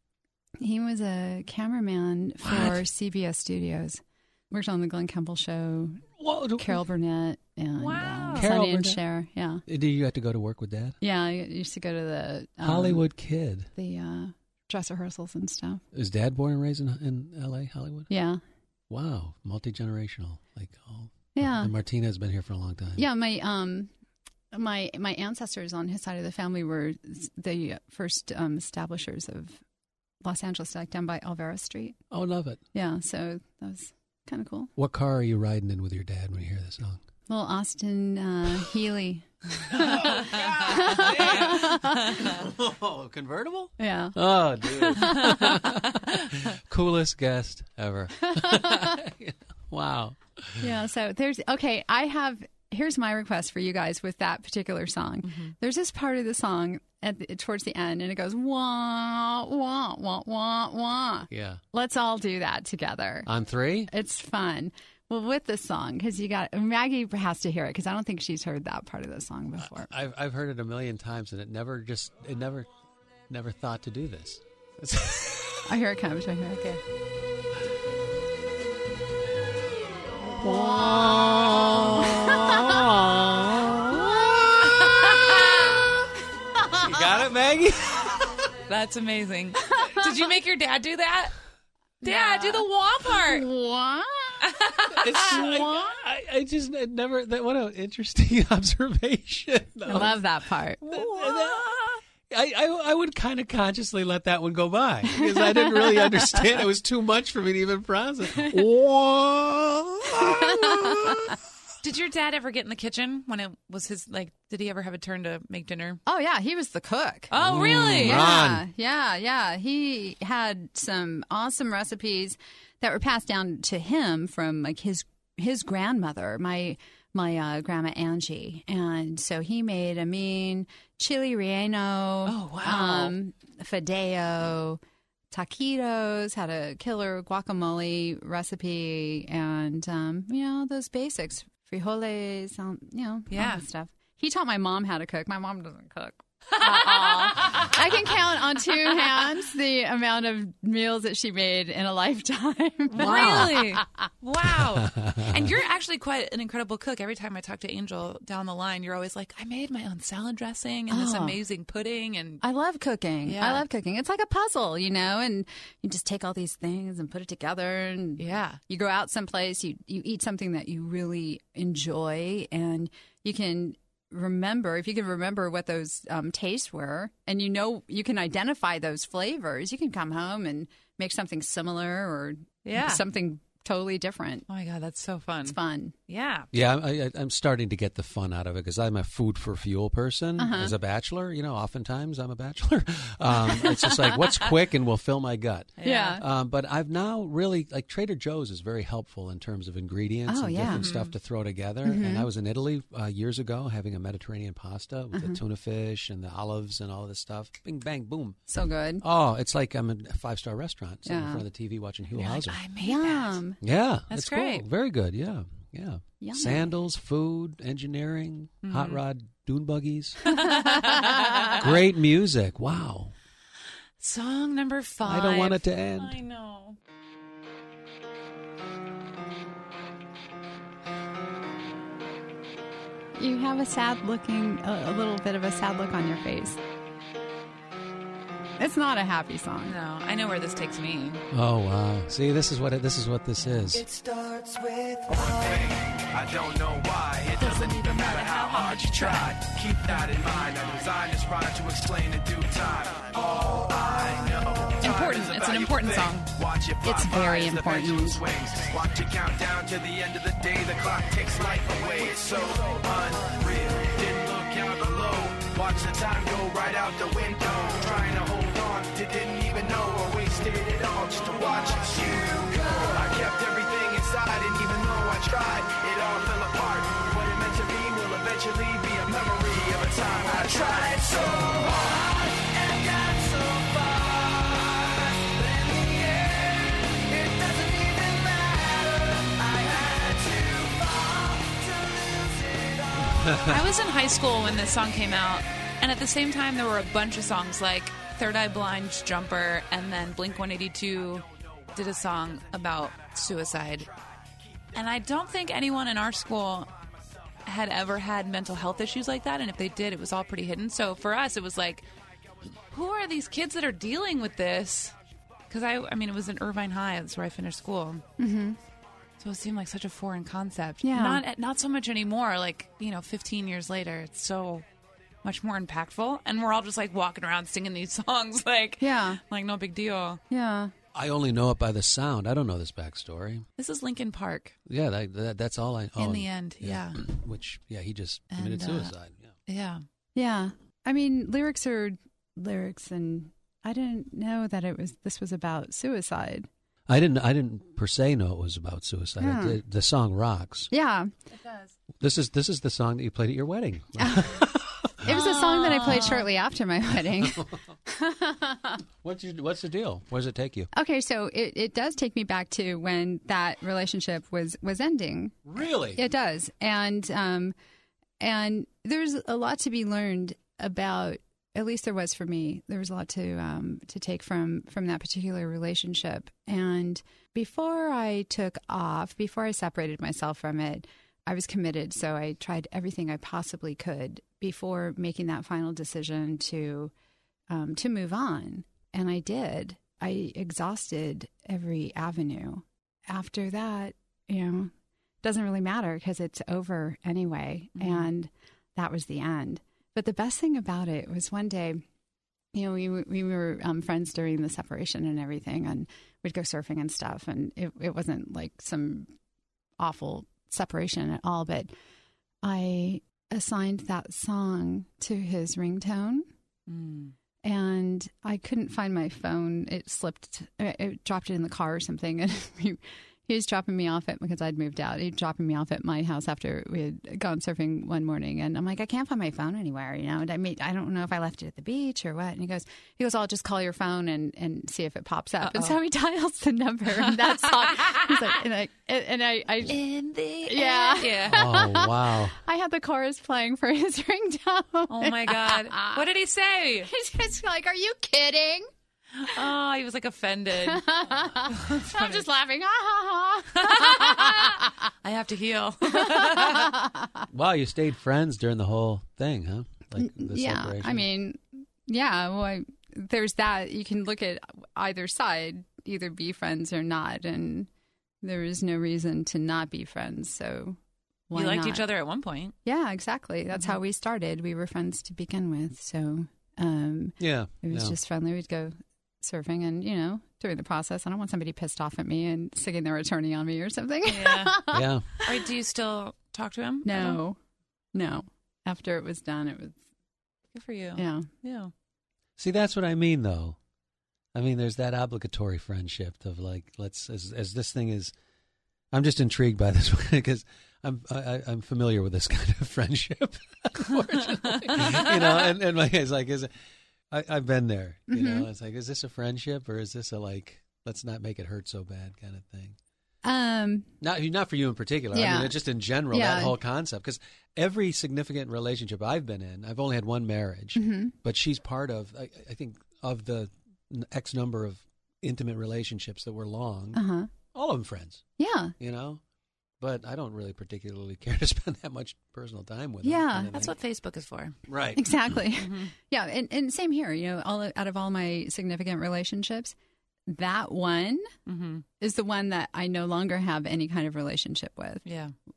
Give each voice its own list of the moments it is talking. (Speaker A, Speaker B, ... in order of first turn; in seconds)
Speaker A: 0.6-9.6, 11.0-13.0, 13.8-15.8, 18.1-18.4, 21.4-21.7, 23.0-23.9, 24.5-29.6, 30.2-32.0, 32.7-34.7, 37.3-42.2, 43.8-45.7, 48.2-49.0, 50.6-63.3, 63.9-69.9, 75.6-76.8, 80.4-82.8, 84.8-85.5, 86.6-87.0, 89.7-90.2, 92.0-94.5, 95.2-96.0, 99.9-101.0, 105.2-106.5, 108.4-108.6, 110.2-111.3, 116.1-117.3, 118.0-134.8, 135.3-153.9, 160.9-161.4, 162.4-184.4, 185.4-185.9, 190.4-190.7, 195.8-196.2, 200.3-200.9, 201.8-202.3, 205.1-205.4, 208.5-209.0, 211.1-211.4, 212.8-213.6, 216.2-216.7, 220.7-221.1, 233.2-236.6, 238.6-239.8, 256.8-258.3, 318.2-318.6, 320.8-321.2, 328.8-329.2, 330.3-330.7, 340.2-346.5, 349.2-349.6, 350.7-351.1, 354.0-354.5, 355.0-358.8, 360.7-365.4, 365.9-367.5, 368.2-386.9, 387.5-394.7, 395.2-401.8, 402.5-409.1, 409.8-411.7, 412.4-416.3, 417.4-439.8, 440.5-446.0, 446.9-448.7, 450.6-454.7, 455.9-457.3, 460.0-467.7, 468.2-470.8, 471.3-471.8, 472.6-484.9, 486.9-487.4, 487.9-489.8, 490.9-491.3, 508.1-508.5, 513.2-513.9, 515.1-515.6, 516.1-516.5, 520.8-521.1, 526.9-527.3, 528.4-528.7, 533.0-533.5, 535.0-539.7, 540.3-541.3, 542.0-545.0
Speaker B: 2.4-2.9, 6.2-6.8, 8.3-9.0, 9.7-11.0, 12.6-13.7, 15.9-18.1, 18.9-23.1, 32.1-32.6, 34.8-37.0, 39.7-50.7, 61.3-61.6, 63.3-63.9, 69.6-72.7, 73.3-75.7, 80.3-85.5, 86.8-88.5, 94.9-100.2, 100.8-111.4, 117.4-118.7, 153.0-153.6, 154.4-155.5, 186.5-208.4, 209.0-212.6, 213.6-220.2, 221.6-223.1, 225.1-226.2, 241.3-243.9, 293.0-293.6, 330.9-333.4, 334.7-339.3, 346.9-350.7, 352.0-355.2, 357.2-357.6, 359.0-360.7, 365.4-366.0, 441.3-442.4, 457.3-461.1, 477.2-478.0, 484.7-485.1, 492.4-493.6, 494.3-498.1, 498.9-506.5, 507.1-512.8, 514.0-527.0, 527.5-528.2, 528.8-529.2, 529.8-533.7, 534.7-535.2
Speaker C: 7.8-8.5, 55.2-55.5, 88.7-91.3, 92.0-93.5, 94.4-95.3, 111.8-116.0, 117.3-118.3, 132.3-133.2, 143.3-143.6, 146.6-147.7, 152.9-162.4, 163.2-163.6, 168.2-168.6, 182.6-183.0, 184.5-185.6, 186.1-186.5, 195.8-196.2, 200.6-201.1, 212.1-213.4, 214.1-214.6, 218.6-219.0, 220.2-221.7, 224.0-226.8, 239.6-241.2, 247.4-249.4, 254.8-256.3, 293.4-303.9, 304.7-306.7, 307.4-311.9, 312.7-314.9, 315.5-318.0, 319.2-324.7, 325.2-330.2, 333.6-334.6, 336.0-337.1, 338.3-338.9, 339.5-339.9, 355.1-356.3, 397.8-398.1, 416.7-417.1, 435.4-435.8, 437.0-438.2, 439.6-441.5, 444.9-446.9, 449.1-452.3, 453.5-456.8, 471.4-472.5, 484.1-484.6, 485.2-487.2, 490.5-491.7, 504.4-505.4, 533.5-534.5, 535.5-535.9, 541.5-541.9, 545.0-545.3
Speaker D: 244.9-293.1